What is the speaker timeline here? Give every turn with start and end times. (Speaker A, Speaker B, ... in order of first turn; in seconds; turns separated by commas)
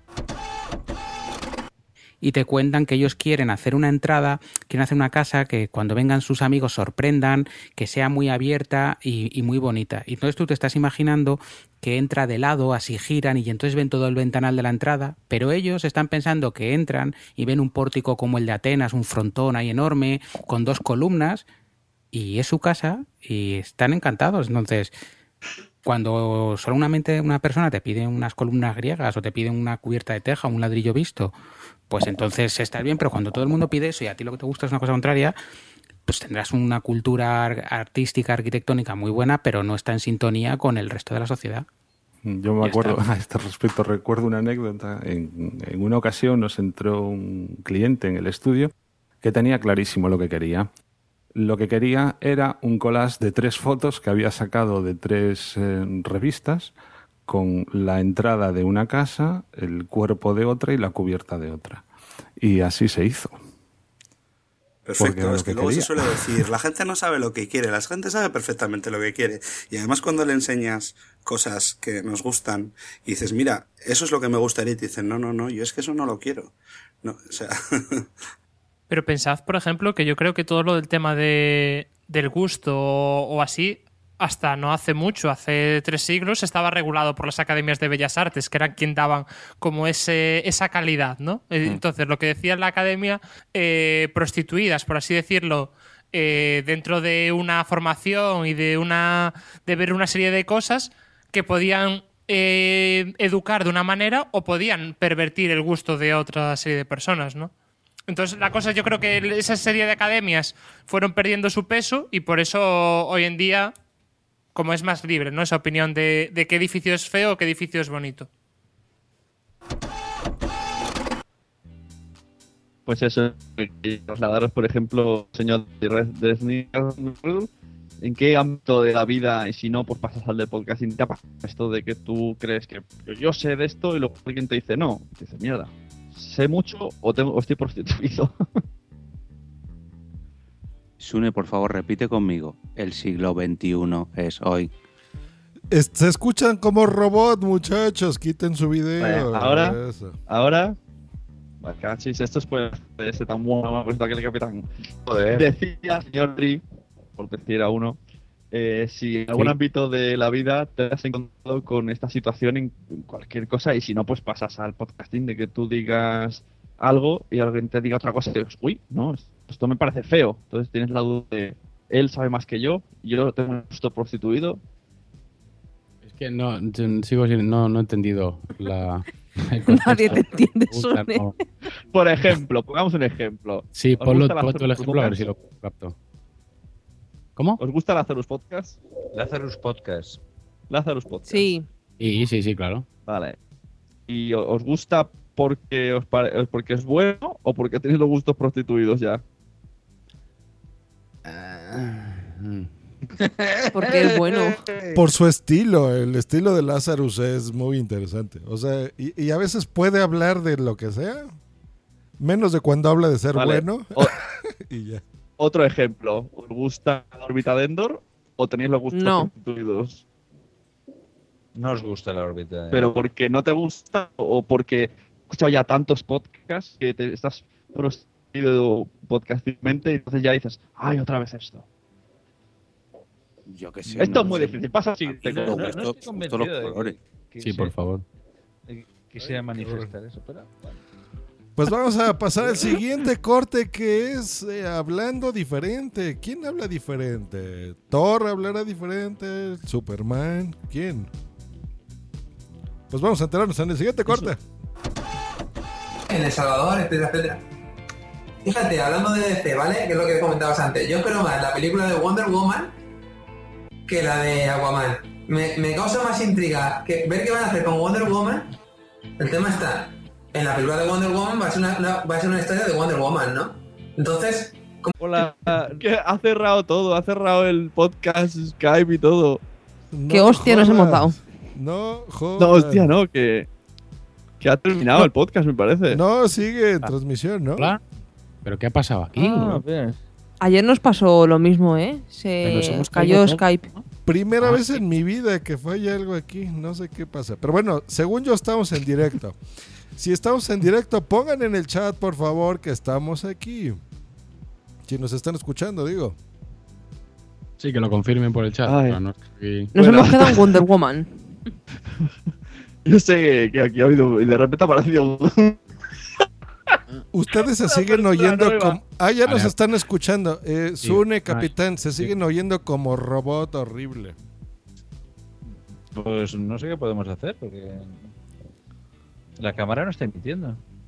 Speaker A: 2.2-21.5, Speaker A: 22.1-24.9, Speaker A: 25.9-31.3, Speaker A: 31.9-35.4, Speaker A: 36.1-41.7, Speaker B: 42.2-50.7, Speaker A: 42.6-43.0, Speaker B: 51.4-56.7, Speaker B: 57.3-61.8, Speaker B: 62.4-63.4, Speaker C: 64.8-78.0, Speaker B: 65.0-66.0, Speaker D: 78.9-107.5, Speaker D: 108.1-113.7, Speaker D: 114.5-118.3, Speaker E: 122.9-127.5, Speaker E: 128.0-138.3, Speaker F: 141.0-144.7, Speaker G: 145.7-150.2, Speaker E: 149.0-149.8, Speaker E: 150.3-150.8, Speaker E: 151.6-154.7, Speaker H: 155.1-155.4, Speaker E: 155.3-156.6, Speaker E: 157.2-158.0, Speaker E: 158.5-174.6, Speaker I: 176.0-181.3, Speaker J: 179.7-181.3, Speaker E: 181.9-185.3, Speaker I: 183.7-185.9, Speaker E: 187.6-188.8, Speaker H: 189.1-190.2, Speaker E: 190.7-191.5, Speaker J: 191.3-191.7, Speaker I: 192.0-192.8, Speaker E: 193.1-193.4, Speaker E: 194.1-199.2, Speaker J: 203.7-204.6, Speaker G: 204.9-211.3, Speaker G: 212.2-215.0, Speaker E: 213.3-214.1, Speaker E: 215.4-220.0, Speaker J: 218.9-219.3, Speaker H: 221.6-222.9, Speaker E: 222.7-231.7, Speaker F: 233.5-234.5, Speaker E: 234.0-235.6, Speaker H: 234.0-234.5, Speaker H: 235.2-237.8, Speaker F: 235.3-237.0, Speaker I: 237.4-238.0, Speaker H: 238.7-240.8, Speaker G: 241.6-251.1, Speaker G: 252.9-254.4, Speaker K: 256.1-257.4, Speaker K: 258.4-262.7, Speaker K: 263.9-268.5, Speaker K: 269.2-274.9, Speaker H: 275.0-275.8, Speaker E: 275.2-279.4, Speaker G: 279.9-282.9, Speaker J: 280.1-281.2, Speaker E: 282.4-283.5, Speaker E: 284.4-286.0, Speaker G: 285.9-287.7, Speaker I: 288.4-289.6, Speaker H: 289.2-290.0, Speaker J: 290.4-293.7, Speaker I: 292.4-293.4, Speaker G: 294.1-299.4, Speaker H: 294.4-294.8, Speaker G: 300.0-303.8, Speaker G: 304.9-306.2, Speaker I: 307.6-309.7, Speaker E: 308.6-309.0, Speaker E: 309.7-310.6, Speaker J: 309.7-311.1, Speaker E: 312.9-315.6, Speaker G: 317.1-324.1, Speaker E: 317.6-318.8, Speaker I: 319.3-319.6, Speaker I: 320.8-321.5, Speaker H: 325.9-328.1, Speaker H: 329.4-330.6